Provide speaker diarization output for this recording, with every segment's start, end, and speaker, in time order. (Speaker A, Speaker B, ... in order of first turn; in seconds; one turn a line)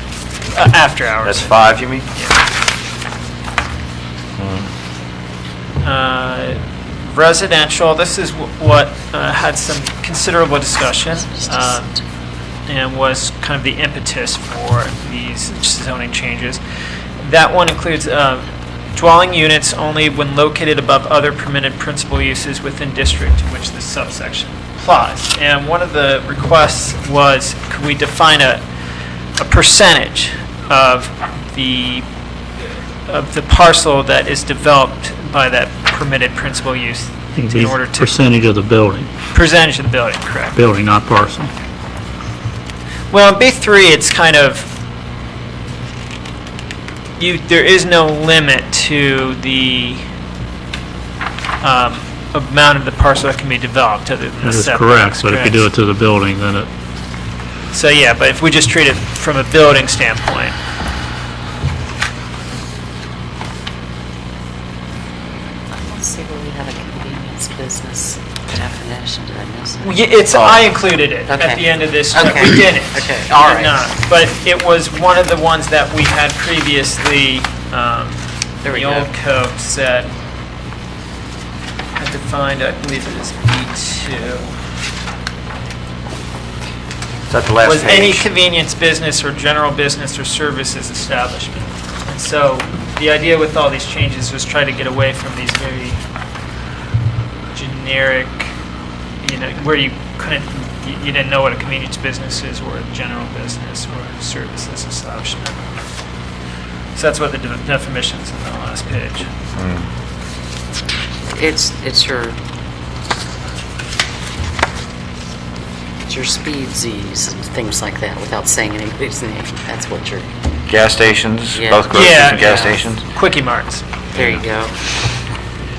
Speaker A: 0.5-2.4
Speaker B: 1.2-2.1
Speaker B: 4.4-4.7
Speaker A: 5.8-12.0
Speaker C: 11.2-12.0
Speaker A: 12.7-16.6
Speaker A: 17.2-28.6
Speaker A: 29.4-32.1
Speaker A: 33.1-38.2
Speaker D: 37.4-39.1
Speaker A: 39.3-40.6
Speaker D: 40.6-41.5
Speaker A: 43.1-44.7
Speaker A: 47.2-50.0
Speaker A: 51.6-55.7
Speaker D: 54.4-56.7
Speaker A: 57.7-60.6
Speaker C: 65.7-70.0
Speaker A: 69.8-80.1
Speaker B: 70.3-70.6
Speaker C: 71.3-73.9
Speaker C: 78.7-79.1
Speaker A: 82.0-84.5
Speaker B: 87.3-88.3
Speaker A: 87.6-96.0
Speaker A: 97.5-98.5
Speaker A: 99.2-105.7
Speaker A: 107.0-109.3
Speaker B: 109.6-109.9
Speaker C: 111.3-112.4
Speaker C: 116.1-120.3
Speaker B: 120.7-123.0
Speaker C: 121.5-122.8
Speaker A: 121.9-123.9
Speaker C: 124.1-125.0
Speaker B: 124.1-124.5